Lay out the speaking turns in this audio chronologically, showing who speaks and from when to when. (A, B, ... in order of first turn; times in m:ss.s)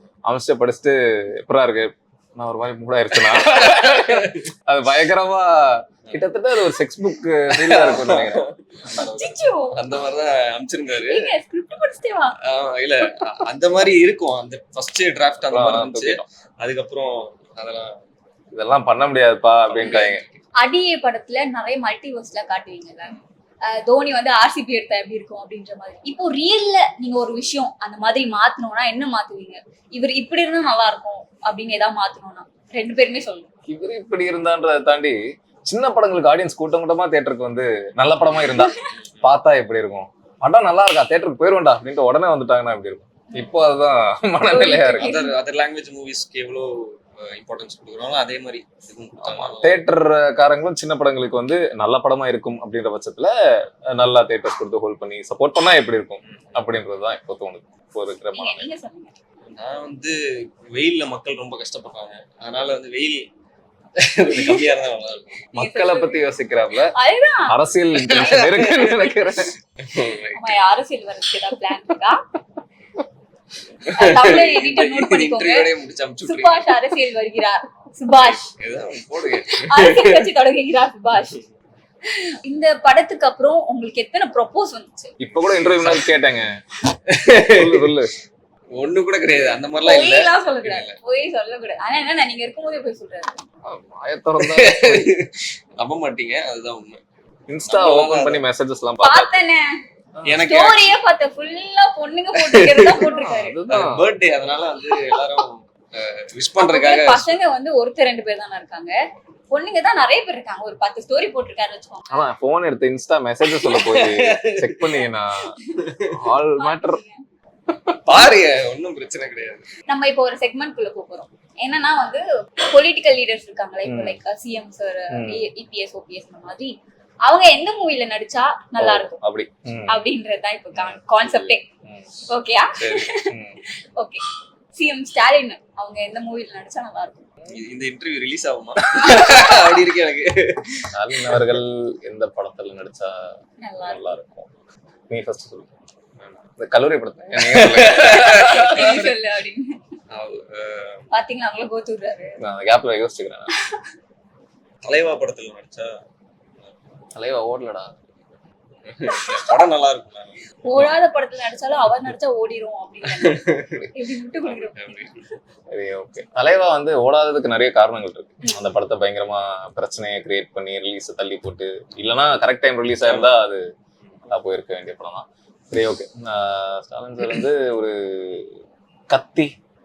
0:00.3-0:08.5 A
0:03.1-0:04.5 B
0:07.5-0:11.3 B
0:09.0-0:09.8 C
0:11.0-0:12.4 C
0:12.4-0:17.9 B
0:15.5-0:16.2 A
0:18.5-0:20.2 A
0:19.7-0:20.4 B
0:20.6-0:23.2 C
0:23.7-0:33.5 C
0:33.7-0:45.1 A
0:38.5-0:38.9 C
0:38.9-0:39.3 B
0:43.3-0:43.6 C
0:44.4-0:45.4 C
0:45.0-0:49.8 B
0:49.2-0:53.3 A
0:53.9-0:58.7 A
0:56.3-0:56.7 B
0:58.3-0:59.2 C
0:59.5-1:03.3 B
1:04.0-1:05.4 B
1:05.5-1:06.3 C
1:05.5-1:06.9 A
1:06.9-1:07.6 C
1:07.5-1:09.5 A
1:08.0-1:08.7 B
1:08.1-1:09.2 C
1:09.8-1:10.5 B
1:10.3-1:12.2 C
1:13.8-1:16.7 B
1:14.0-1:15.7 C
1:16.2-1:18.5 C
1:18.2-1:20.3 B
1:19.5-1:21.4 C
1:22.0-1:25.1 C
1:25.2-1:26.5 A
1:25.5-1:26.2 B
1:27.0-1:28.0 B
1:27.3-1:28.1 A
1:28.7-1:31.0 B
1:29.8-1:33.4 C
1:33.6-1:35.1 A
1:34.4-1:37.0 B
1:37.5-1:39.3 A
1:37.7-1:38.4 B
1:39.0-1:39.7 C
1:40.2-1:40.9 B
1:40.4-1:43.6 C
1:42.4-1:43.1 B
1:43.0-1:44.0 A
1:43.7-1:47.3 B
1:46.6-1:48.9 C
1:49.5-1:52.2 C
1:52.1-1:55.6 A
1:53.6-1:55.0 B
1:55.0-1:55.8 C
1:55.8-1:56.1 B
1:56.1-1:57.0 A
1:56.5-1:57.2 C
1:57.9-1:59.7 B
1:59.9-2:06.7 C
2:03.8-2:04.2 A
2:05.1-2:05.4 A
2:07.2-2:09.2 C
2:08.8-2:10.0 A
2:09.9-2:11.6 C
2:10.7-2:12.2 A
2:12.3-2:14.2 C
2:12.8-2:13.6 A
2:14.7-2:17.3 C
2:17.5-2:21.6 B
2:19.1-2:19.6 C
2:20.9-2:23.3 A
2:23.6-2:24.1 C
2:23.8-2:24.5 A
2:25.1-2:25.7 A
2:26.6-2:28.9 A
2:27.4-2:29.1 B
2:28.0-2:29.8 C
2:30.1-2:31.0 B
2:31.1-2:32.4 C
2:32.4-2:33.5 A
2:33.5-2:33.8 C
2:34.8-2:36.0 B
2:37.1-2:38.0 A
2:38.8-2:40.8 B
2:39.1-2:39.6 C
2:40.6-2:44.8 C
2:43.2-2:43.7 B
2:44.4-2:45.2 B
2:45.7-2:53.6 A
2:53.0-2:53.4 B
2:54.3-2:58.5 A
2:59.1-2:59.5 A